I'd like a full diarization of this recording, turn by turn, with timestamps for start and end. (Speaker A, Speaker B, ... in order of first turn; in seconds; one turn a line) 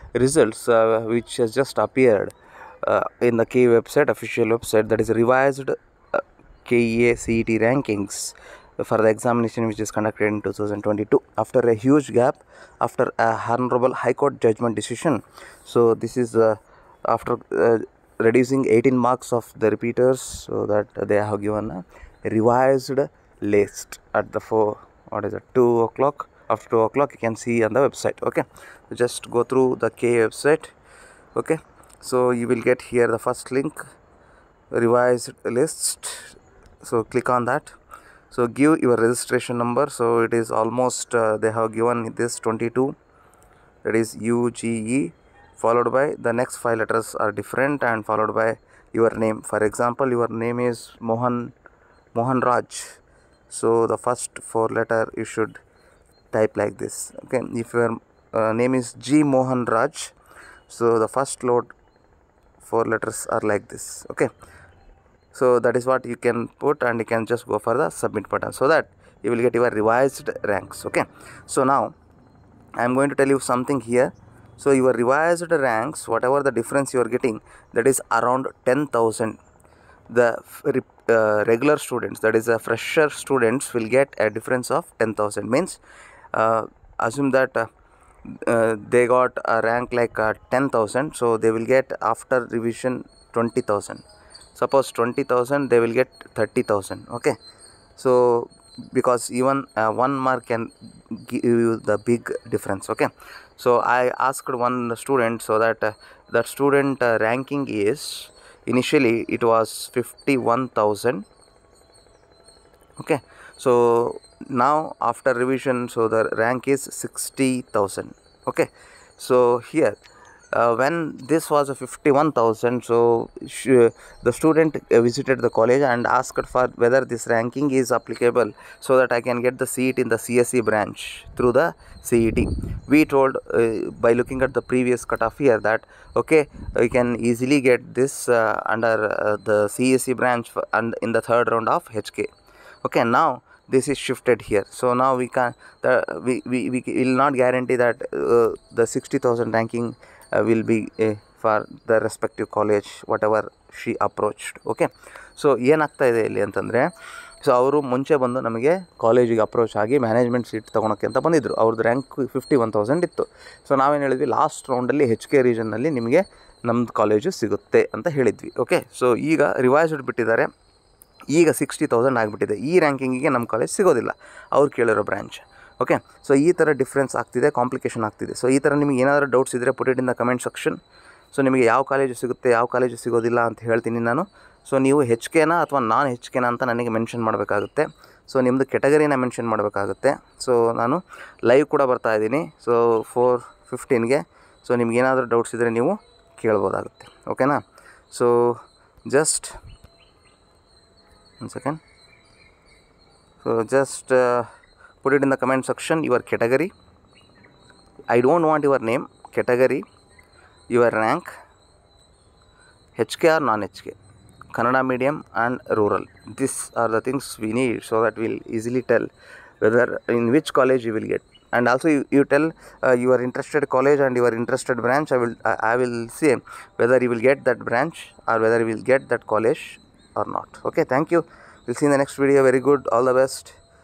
Speaker A: 0.1-30.7
Speaker A: 31.3-33.8
Speaker A: 34.7-37.7
Speaker A: 38.3-43.0
Speaker A: 43.8-51.5
Speaker A: 52.1-53.0
Speaker A: 53.5-55.6
Speaker A: 56.3-60.1
Speaker A: 60.7-61.7
Speaker A: 62.6-64.3
Speaker A: 65.3-71.9
Speaker A: 72.8-79.4
Speaker A: 80.1-85.8
Speaker A: 86.3-87.7
Speaker A: 88.2-94.0
Speaker A: 94.5-97.3
Speaker A: 98.0-111.2
Speaker A: 113.0-120.0
Speaker A: 120.5-142.3
Speaker A: 142.8-170.5
Speaker A: 171.3-180.8
Speaker A: 181.3-199.5
Speaker A: 201.4-201.8
Speaker A: 203.4-204.5
Speaker A: 205.0-206.7
Speaker A: 208.1-209.8
Speaker A: 210.7-211.3
Speaker A: 213.0-213.9
Speaker A: 214.5-219.1
Speaker A: 219.6-233.6